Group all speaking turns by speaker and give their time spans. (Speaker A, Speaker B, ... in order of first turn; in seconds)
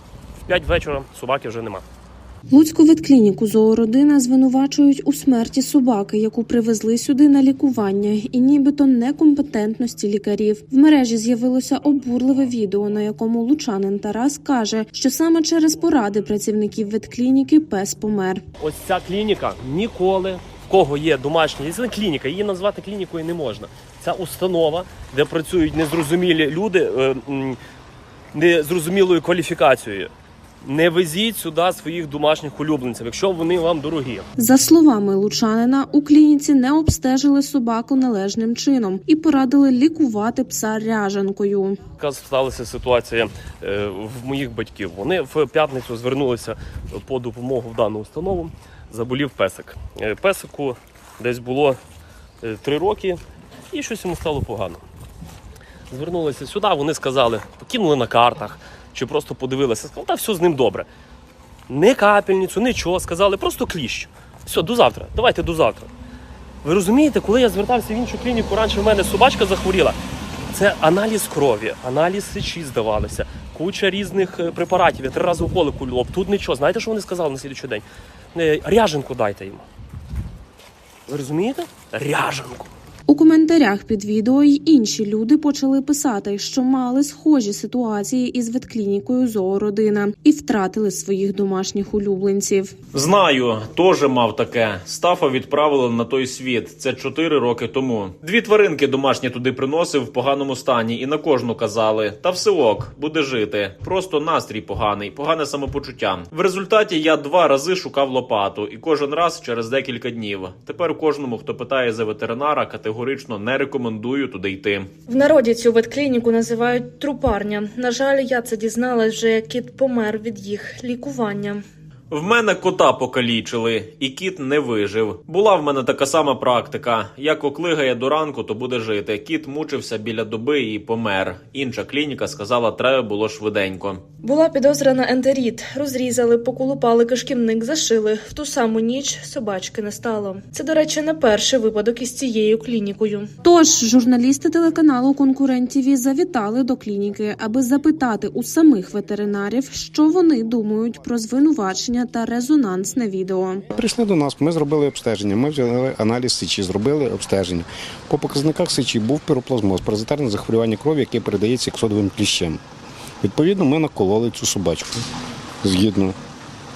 Speaker A: 0.5-1.8, 18.6-27.6, 28.3-30.1, 30.6-34.2, 42.0-51.8, 52.4-53.2, 53.7-54.8, 55.9-60.9, 61.7-65.9, 66.6-70.0, 70.5-79.6, 81.1-82.7
Speaker B: 2.5-18.4, 34.4-41.8, 83.1-92.7, 143.4-153.6
Speaker C: 92.9-114.9, 122.1-134.0
Speaker D: 115.1-121.6, 134.2-143.3
Speaker E: 153.7-162.6, 163.2-165.1, 165.6-166.1